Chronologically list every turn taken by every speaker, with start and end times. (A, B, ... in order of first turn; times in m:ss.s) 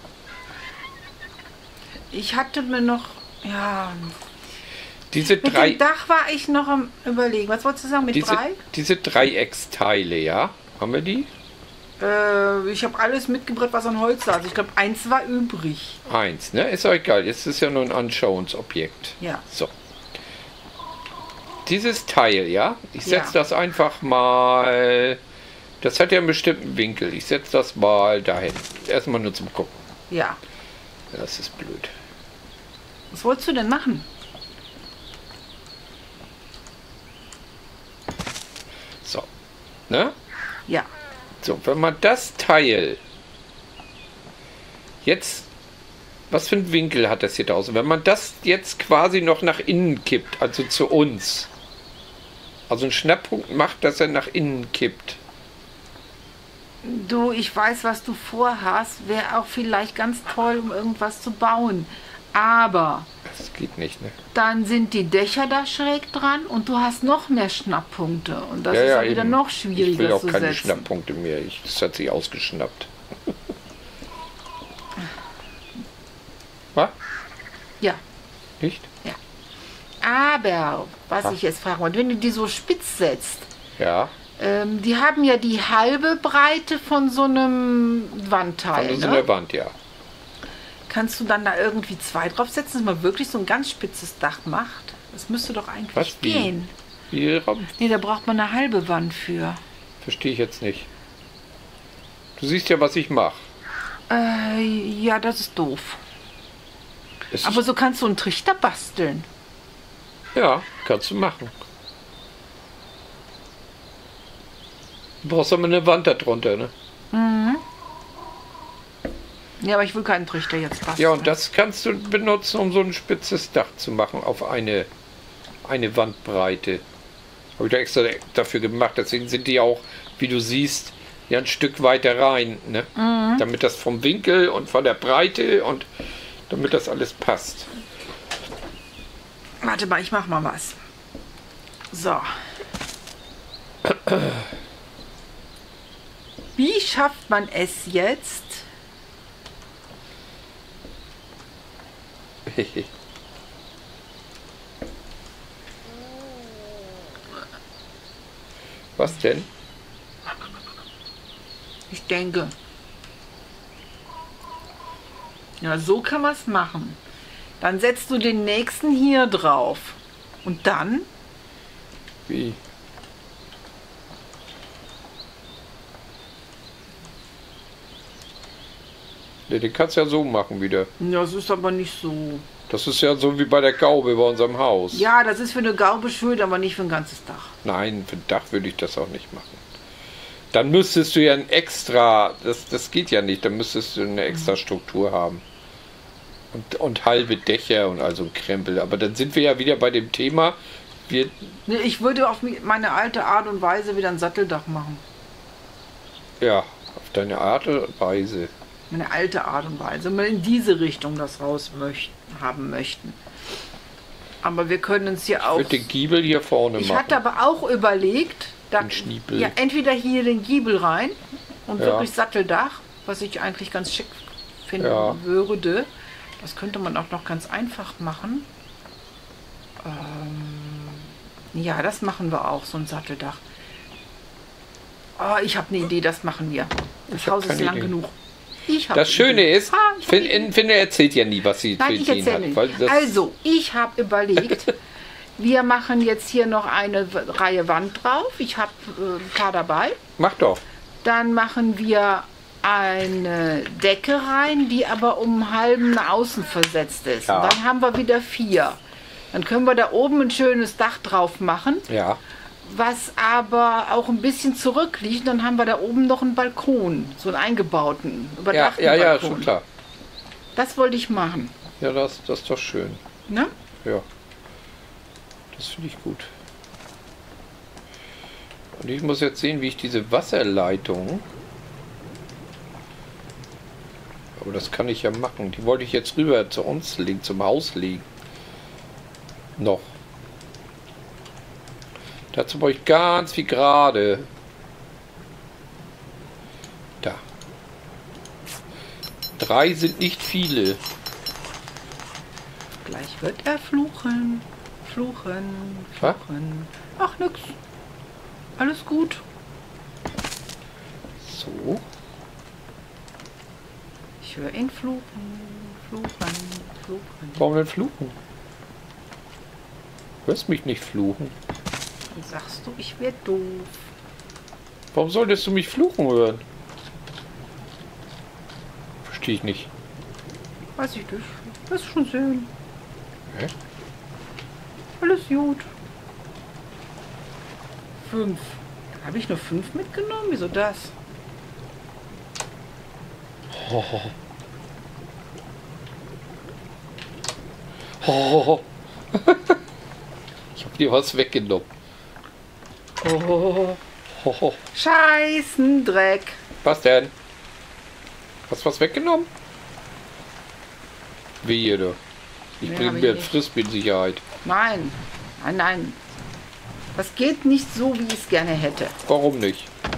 0:02.1-0:04.2 A
0:05.1-0:05.8 B
0:05.2-0:08.6 A
0:08.1-0:11.3 B
0:12.0-0:16.0 A
0:16.0-0:19.7 B
0:21.6-0:25.2 B
0:23.0-0:23.4 A
0:25.8-0:29.7 B
0:30.1-0:30.4 A
0:31.1-0:31.9 B
0:33.1-0:34.1 A
0:39.9-0:40.1 B
0:41.4-0:43.0 B
0:45.0-0:45.5 B
0:46.3-0:51.5 B
0:52.7-0:55.2 B
0:56.8-1:03.1 A
1:03.2-1:04.2 B
1:04.3-1:10.9 A
1:08.7-1:12.9 B
1:18.6-1:18.9 B
1:20.0-1:23.5 A
1:23.8-1:24.1 B
1:24.4-1:29.2 A
1:28.7-1:29.7 B
1:30.9-1:36.7 A
1:35.9-1:36.5 B
1:37.1-1:37.7 B
1:37.8-1:39.6 A
1:40.0-1:40.9 B
1:42.4-1:43.4 B
1:44.1-1:46.0 A
1:47.3-1:47.6 B
1:47.4-1:49.3 A
1:50.3-1:51.5 B
1:55.2-1:56.7 B
1:57.1-1:57.6 A
1:59.6-2:01.3 A
2:01.0-2:04.9 B
2:05.6-2:06.8 B
2:07.6-2:15.8 B
2:13.0-2:13.4 A
2:16.5-2:17.7 B
2:19.6-2:20.8 A
2:21.9-2:22.3 A
2:23.9-2:24.3 B
2:26.6-2:28.7 A
2:32.5-2:32.9 B
2:39.0-2:39.5 B
2:41.9-2:42.5 A
2:45.6-2:47.0 A
2:47.6-2:51.1 A
2:52.3-2:52.6 B
2:59.5-3:00.9 B
3:01.0-3:02.4 A
3:02.7-3:05.1 B
3:04.9-3:07.5 A
3:07.6-3:09.6 B
3:10.5-3:15.4 B
3:16.5-3:21.6 B
3:21.7-3:25.0 A
3:26.4-3:28.5 B
3:28.9-3:33.2 A
3:34.4-3:35.9 A
3:35.4-3:37.2 B
3:36.8-3:48.5 A
3:38.8-3:39.5 B
3:41.8-3:42.1 B
3:44.8-3:45.2 B
3:49.8-3:53.4 A
3:55.2-3:58.1 A
3:57.1-3:57.9 B
3:58.7-4:00.5 A
3:58.9-4:03.2 B
4:01.8-4:04.8 A
4:05.4-4:10.0 A
4:10.2-4:10.6 B
4:11.0-4:18.8 A
4:17.3-4:17.6 B
4:19.3-4:21.9 A
4:21.9-4:22.2 B
4:22.6-4:29.5 A
4:28.5-4:29.6 B
4:30.5-4:31.5 A
4:31.8-4:33.0 B
4:33.3-4:33.5 A
4:35.5-4:36.3 B
4:38.7-4:41.2 B
4:44.4-4:48.0 B
4:49.6-4:49.9 B
4:52.3-4:54.3 B
4:59.4-5:00.8 B
5:02.8-5:07.6 A
5:08.6-5:09.2 A
5:11.2-5:11.8 B
5:14.2-5:17.4 A
5:17.4-5:18.2 B
5:20.2-5:21.3 B
5:22.1-5:23.9 A
5:24.9-5:26.4 B
5:29.0-5:29.7 B
5:30.8-5:32.5 A
5:35.0-5:35.7 A
5:38.0-5:40.9 A
5:43.5-5:44.1 B
5:48.0-5:49.6 B
5:50.6-5:51.7 B
5:53.0-5:53.8 A
5:54.2-5:54.6 B
5:54.7-5:56.4 A
5:56.6-5:57.1 B
5:58.5-5:59.3 B
6:01.4-6:02.0 B
6:02.6-6:04.2 B
6:02.6-6:03.4 A
6:04.4-6:06.0 A
6:06.9-6:09.0 A
6:09.1-6:09.7 B